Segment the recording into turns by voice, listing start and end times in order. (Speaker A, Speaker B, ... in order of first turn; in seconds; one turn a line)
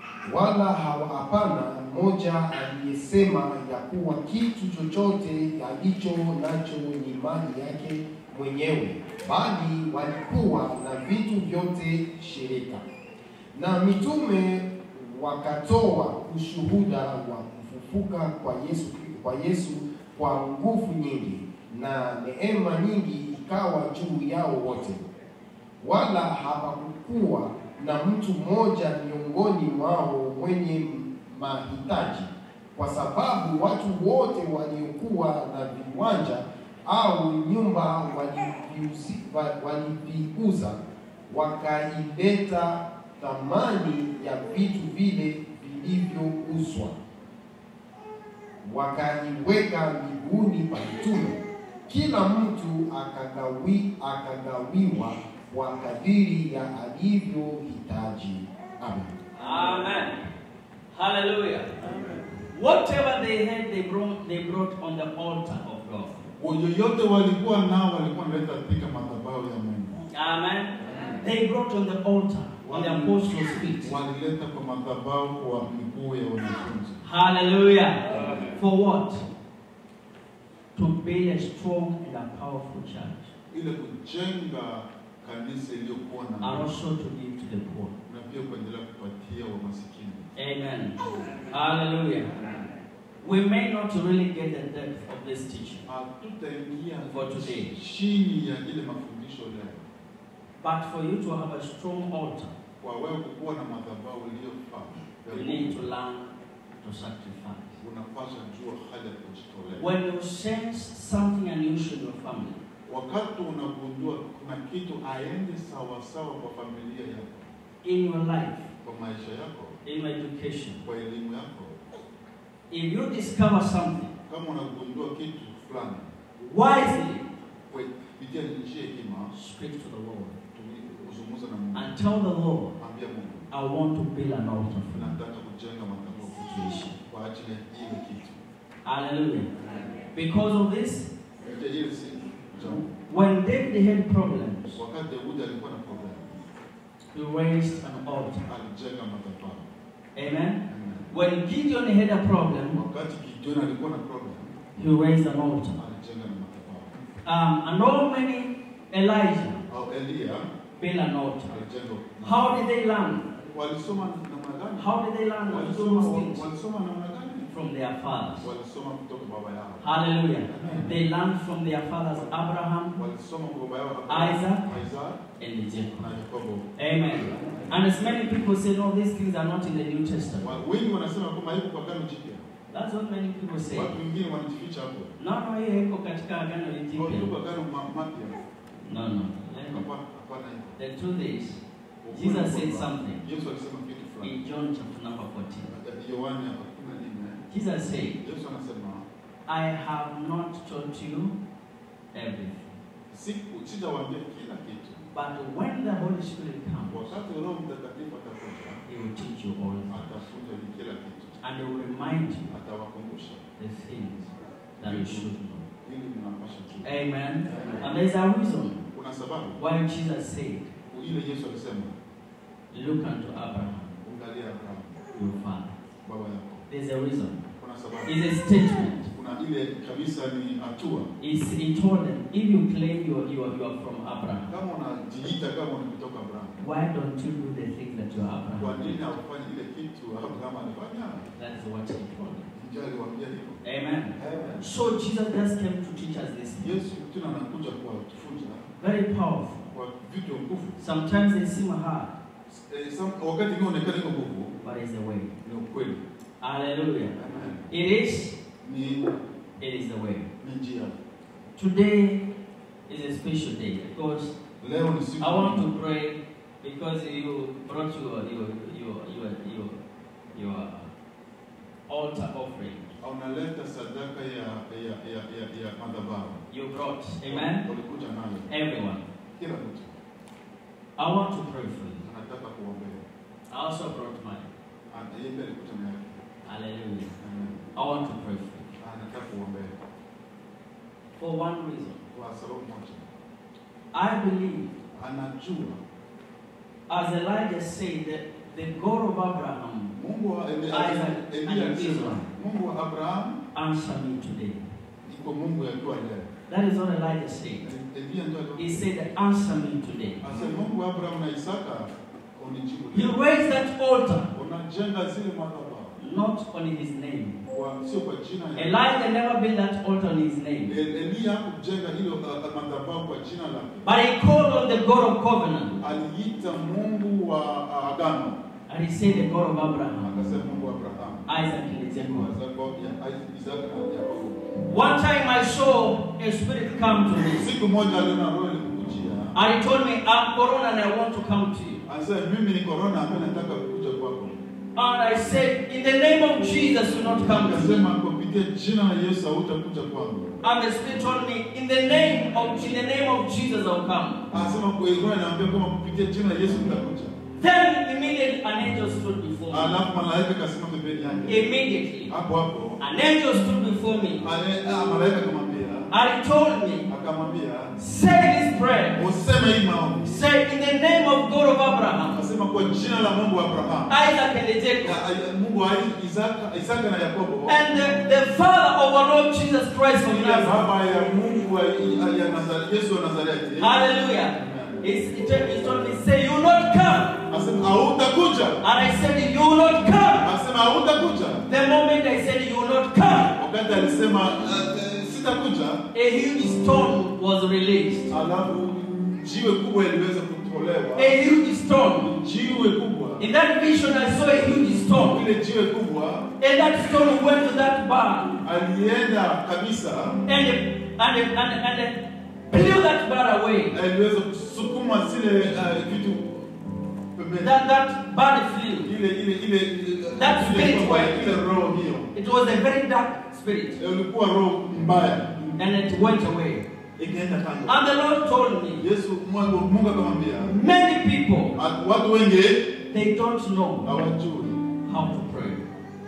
Speaker A: 0.2-12.8
Speaker A: 13.5-25.0
Speaker A: 25.8-40.8
Speaker A: 41.3-47.0
Speaker A: 48.6-59.1
Speaker B: 59.4-60.2
Speaker B: 60.9-61.8
Speaker B: 62.5-66.2
Speaker C: 66.4-70.0
Speaker B: 70.1-73.9
Speaker C: 72.6-73.3
Speaker C: 73.8-77.0
Speaker B: 77.0-79.2
Speaker B: 80.8-83.3
Speaker C: 83.5-86.7
Speaker B: 86.4-88.0
Speaker C: 88.1-90.3
Speaker B: 90.4-92.3
Speaker B: 93.2-95.9
Speaker C: 95.9-99.8
Speaker B: 97.1-97.7
Speaker B: 100.6-102.5
Speaker C: 102.8-105.8
Speaker B: 105.3-107.8
Speaker C: 107.8-109.9
Speaker B: 109.8-112.6
Speaker C: 112.9-117.5
Speaker B: 117.8-118.7
Speaker C: 118.8-119.8
Speaker B: 119.8-120.8
Speaker C: 120.8-121.9
Speaker B: 122.7-124.1
Speaker C: 124.3-126.1
Speaker B: 126.4-127.3
Speaker C: 127.7-129.3
Speaker B: 129.3-130.4
Speaker C: 130.5-132.0
Speaker B: 131.7-132.7
Speaker C: 132.8-133.5
Speaker B: 133.5-135.1
Speaker C: 134.9-138.4
Speaker B: 136.3-136.9
Speaker B: 138.8-139.5
Speaker B: 140.1-141.1
Speaker C: 141.4-142.9
Speaker B: 143.1-144.8
Speaker C: 144.8-146.4
Speaker B: 147.1-148.5
Speaker C: 148.5-149.7
Speaker B: 150.2-152.8
Speaker C: 150.7-151.1
Speaker C: 152.7-154.5
Speaker B: 154.8-155.8
Speaker C: 155.8-156.9
Speaker B: 157.2-159.7
Speaker C: 159.7-160.5
Speaker B: 160.8-161.5
Speaker C: 161.5-162.5
Speaker B: 162.2-163.3
Speaker C: 163.5-164.9
Speaker B: 164.8-166.5
Speaker C: 165.5-167.5
Speaker B: 167.5-168.5
Speaker C: 168.4-169.9
Speaker B: 169.8-173.0
Speaker C: 170.4-171.0
Speaker C: 173.0-175.2
Speaker B: 174.1-174.7
Speaker B: 175.4-176.1
Speaker C: 176.0-176.7
Speaker B: 176.8-180.4
Speaker C: 180.4-182.5
Speaker B: 182.7-183.9
Speaker C: 183.7-185.1
Speaker B: 185.2-187.3
Speaker C: 186.9-188.4
Speaker B: 188.8-189.8
Speaker C: 189.7-190.8
Speaker B: 190.8-191.6
Speaker C: 192.0-194.4
Speaker B: 192.1-193.2
Speaker B: 194.2-195.7
Speaker C: 195.7-197.4
Speaker B: 197.5-198.2
Speaker C: 198.2-199.1
Speaker B: 199.5-201.4
Speaker B: 202.1-202.8
Speaker C: 203.1-205.1
Speaker B: 205.1-207.2
Speaker C: 206.9-208.8
Speaker B: 208.9-210.1
Speaker C: 209.9-211.4
Speaker B: 211.4-212.5
Speaker C: 212.5-213.4
Speaker B: 213.6-215.7
Speaker C: 214.8-217.9
Speaker B: 216.8-218.8
Speaker C: 218.9-219.6
Speaker B: 219.6-220.7
Speaker C: 220.9-222.0
Speaker B: 222.7-223.9
Speaker C: 224.0-225.0
Speaker B: 225.1-225.8
Speaker C: 226.1-226.7
Speaker B: 226.7-227.4
Speaker C: 227.6-228.2
Speaker B: 228.1-229.1
Speaker C: 229.1-231.1
Speaker B: 231.2-234.5
Speaker C: 234.5-236.6
Speaker B: 236.6-239.1
Speaker C: 238.6-241.3
Speaker B: 241.4-242.5
Speaker C: 242.5-243.6
Speaker B: 243.6-246.8
Speaker C: 244.2-244.7
Speaker C: 246.6-248.7
Speaker B: 248.8-249.6
Speaker C: 249.7-250.8
Speaker B: 250.8-252.2
Speaker C: 252.5-254.6
Speaker B: 254.6-255.3
Speaker C: 255.4-256.0
Speaker B: 256.4-257.2
Speaker C: 257.1-257.7
Speaker B: 257.7-258.4
Speaker C: 258.6-259.2
Speaker B: 259.6-260.3
Speaker C: 260.4-260.9
Speaker B: 261.6-262.2
Speaker B: 262.9-264.4
Speaker C: 264.6-265.7
Speaker B: 265.2-269.8
Speaker B: 270.3-270.9
Speaker B: 271.9-272.9
Speaker C: 273.0-276.4
Speaker B: 276.5-277.7
Speaker C: 277.3-278.5
Speaker B: 278.5-279.0
Speaker C: 279.3-279.9
Speaker B: 281.0-282.1
Speaker C: 282.0-283.1
Speaker B: 283.5-284.5
Speaker C: 284.9-286.2
Speaker B: 286.4-287.1
Speaker C: 287.2-287.7
Speaker B: 287.8-288.7
Speaker C: 288.8-289.8
Speaker B: 291.2-292.0
Speaker C: 292.1-293.1
Speaker B: 293.9-294.7
Speaker C: 295.0-295.8
Speaker B: 296.9-299.9
Speaker C: 299.9-303.4
Speaker B: 300.7-302.3
Speaker B: 303.5-304.7
Speaker C: 305.0-306.3
Speaker B: 306.5-307.7
Speaker C: 307.6-308.9
Speaker B: 308.6-310.2
Speaker C: 310.2-313.2
Speaker B: 312.9-314.3
Speaker C: 314.3-316.0
Speaker B: 316.0-317.4
Speaker C: 317.5-318.9
Speaker B: 318.6-320.8
Speaker C: 320.7-323.9
Speaker B: 323.9-325.8
Speaker C: 325.8-328.4
Speaker B: 328.7-330.1
Speaker C: 330.0-334.4
Speaker B: 331.3-332.3
Speaker B: 334.7-337.5
Speaker C: 337.1-339.4
Speaker B: 339.3-341.8
Speaker C: 341.9-344.4
Speaker B: 344.8-347.9
Speaker C: 347.2-350.4
Speaker B: 350.4-354.3
Speaker C: 354.3-357.2
Speaker B: 357.4-359.8
Speaker C: 359.5-361.5
Speaker B: 361.3-362.1
Speaker C: 362.1-362.8
Speaker B: 362.8-364.2
Speaker C: 364.2-365.9
Speaker B: 365.9-366.9
Speaker C: 366.9-367.7
Speaker B: 367.8-369.0
Speaker C: 369.0-370.2
Speaker B: 370.0-372.2
Speaker C: 372.1-373.9
Speaker B: 373.9-375.0
Speaker C: 374.8-377.6
Speaker B: 377.5-380.6
Speaker C: 380.1-384.8
Speaker B: 383.6-387.2
Speaker C: 387.3-388.6
Speaker B: 388.6-390.3
Speaker C: 390.2-391.5
Speaker B: 391.5-393.4
Speaker C: 393.4-395.8
Speaker B: 395.9-398.1
Speaker C: 398.1-401.3
Speaker B: 401.0-402.1
Speaker C: 402.0-403.3
Speaker B: 403.2-405.2
Speaker C: 405.0-406.3
Speaker B: 406.4-408.4
Speaker C: 408.4-410.2
Speaker B: 410.3-413.8
Speaker C: 413.7-416.5
Speaker C: 417.1-417.6
Speaker B: 417.4-418.9
Speaker C: 418.8-422.1
Speaker B: 420.2-421.4
Speaker B: 422.1-423.8
Speaker C: 423.8-425.6
Speaker B: 425.6-426.6
Speaker C: 427.0-427.8
Speaker B: 427.7-428.8
Speaker C: 428.8-430.6
Speaker B: 430.5-431.6
Speaker C: 431.6-432.8
Speaker B: 432.9-433.9
Speaker C: 433.8-434.7
Speaker B: 434.9-435.6